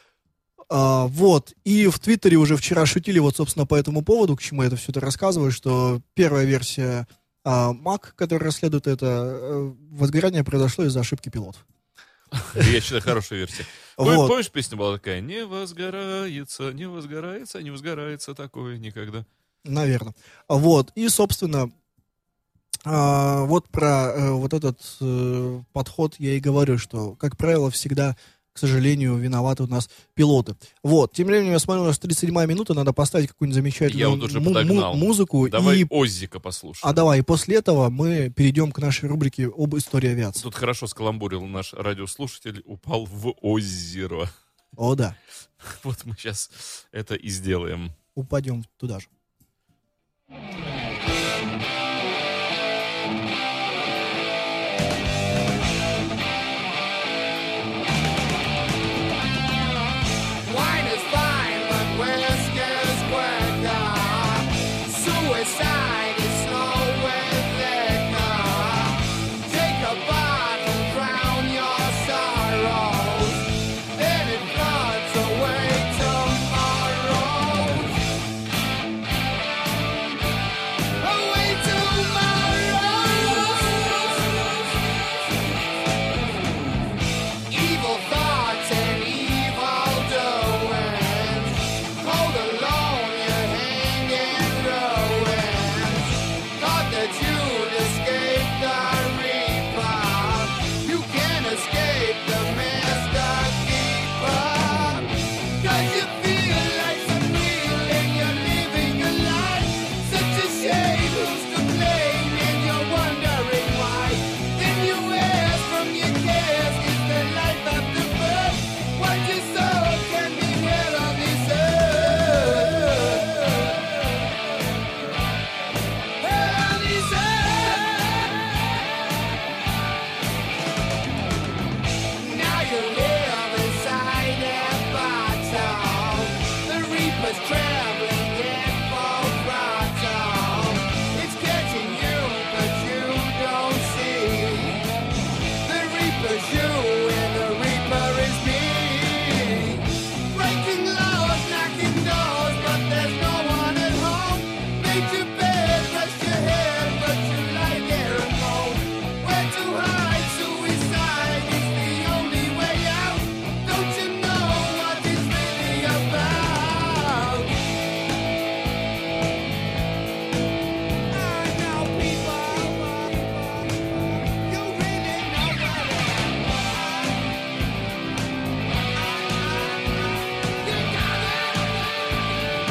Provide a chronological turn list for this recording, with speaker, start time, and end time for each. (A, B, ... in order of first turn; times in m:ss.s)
0:00.7-0:11.6 A
0:12.4-0:19.3 B
0:14.0-0:14.4 A
0:19.6-0:21.7 A
0:22.8-0:35.9 A
0:33.9-0:37.0 B
0:36.8-0:40.4 A
0:40.4-0:44.3 B
0:44.8-0:45.2 A
0:45.6-0:48.0 B
0:48.2-0:49.1 A
1:00.4-1:13.4 C
1:14.0-1:18.0 C
1:21.0-1:25.0 C
1:27.5-2:04.0 C
2:06.2-2:08.8 C
2:12.2-2:24.8 C
2:25.6-2:47.6 C
2:51.1-2:57.2 C
2:59.0-3:01.9 C